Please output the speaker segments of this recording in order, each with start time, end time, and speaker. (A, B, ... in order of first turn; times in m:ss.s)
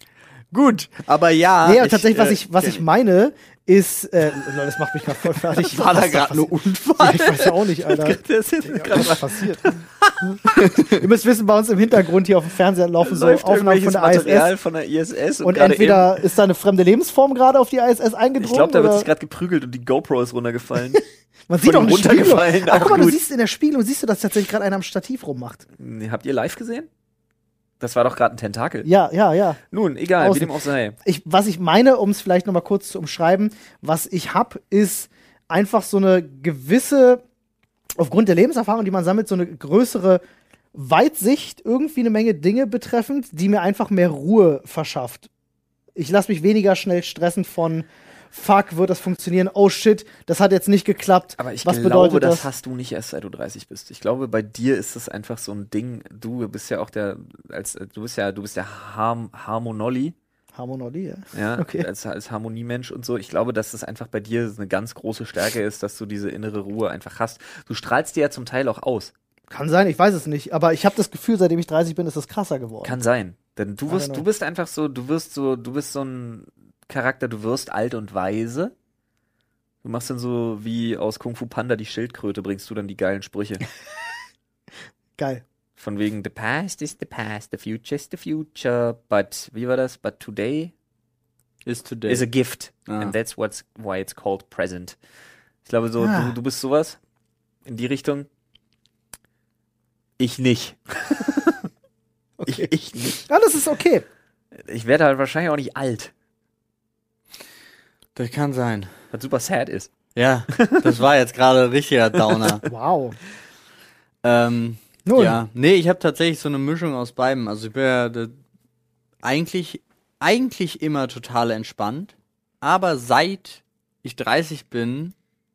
0:00.5-0:02.8 A
0:01.6-0:09.7 B
0:05.3-0:09.2 A
0:08.0-0:09.8 C
0:10.2-0:14.5 B
0:10.4-0:11.0 A
0:13.0-0:16.2 C
0:15.4-0:19.1 B
0:18.4-0:21.0 C
0:21.5-0:25.6 B
0:21.6-0:23.2 C
0:25.8-0:26.9 C
0:27.8-0:28.9 C
0:28.8-0:29.6 B
0:29.7-0:31.0 C
0:30.2-0:37.2 B
0:38.0-0:40.2 B
0:40.7-0:45.3 B
0:46.0-0:52.5 B
0:51.4-1:00.1 C
1:00.5-1:01.9 B
1:01.3-1:09.1 C
1:09.5-1:13.0 B
1:12.8-1:18.7 C
1:13.9-1:14.2 B
1:19.8-1:23.6 C
1:25.2-1:25.4 B
1:25.8-1:30.7 C
1:31.6-1:32.3 A
1:32.1-1:35.0 C
1:32.9-1:33.1 A
1:35.6-1:37.0 C
1:37.6-1:38.3 C
1:40.2-1:41.7 C
1:42.4-1:42.7 B
1:42.4-1:43.2 C
1:43.2-1:44.0 B
1:44.5-1:46.1 C
1:48.2-1:48.9 A
1:49.1-1:49.9 C
1:50.1-1:52.6 A
1:50.5-1:51.0 C
1:52.2-1:52.4 C
1:52.6-1:53.2 B
1:54.2-1:58.4 A
1:55.0-1:55.4 B
1:59.2-2:05.1 A